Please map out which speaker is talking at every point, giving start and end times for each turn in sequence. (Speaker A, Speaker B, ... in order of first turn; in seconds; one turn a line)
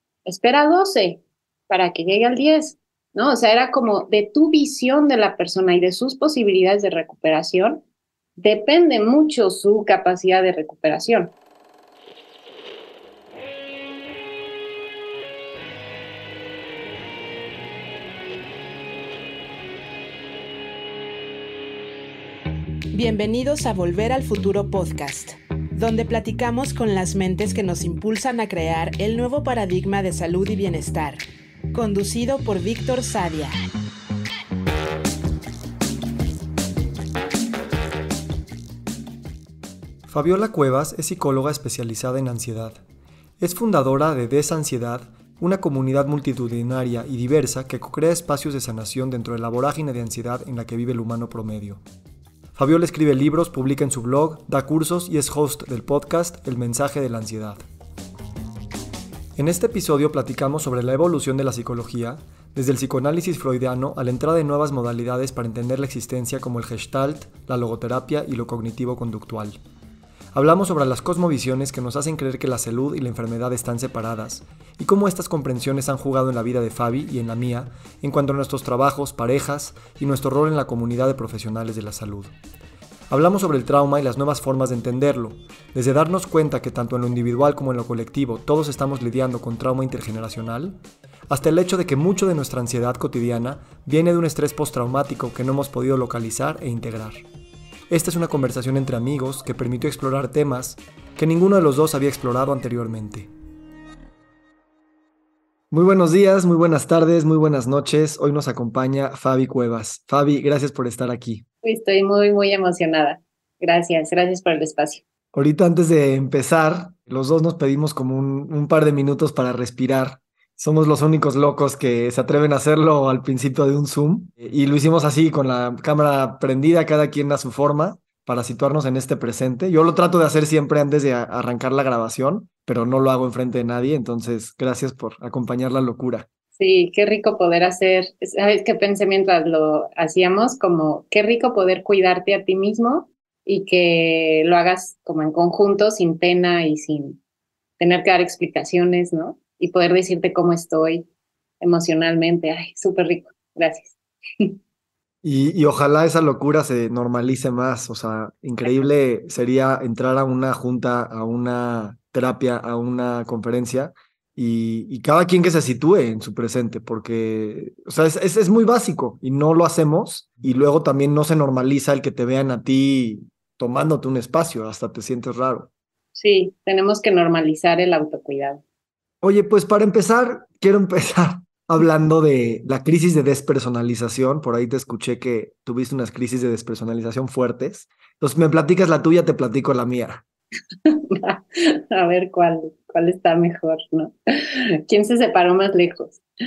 Speaker A: 0.2-7.8
Speaker A: 8.4-11.3
Speaker B: 22.9-31.2
Speaker B: 31.7-33.6
Speaker C: 40.1-42.8
Speaker C: 43.4-51.8
Speaker C: 52.5-57.6
Speaker C: 59.4-69.6
Speaker C: 70.3-82.3
Speaker C: 83.1-90.8
Speaker C: 91.3-97.2
Speaker C: 97.9-103.3
Speaker C: 105.7-111.4
Speaker A: 111.6-115.0
Speaker C: 115.3-136.3
Speaker A: 136.6-147.2
Speaker A: 147.8-151.1
Speaker A: 151.6-154.6
Speaker C: 155.2-175.7
Speaker A: 176.2-178.6
Speaker C: 179.2-190.2
Speaker A: 190.9-196.2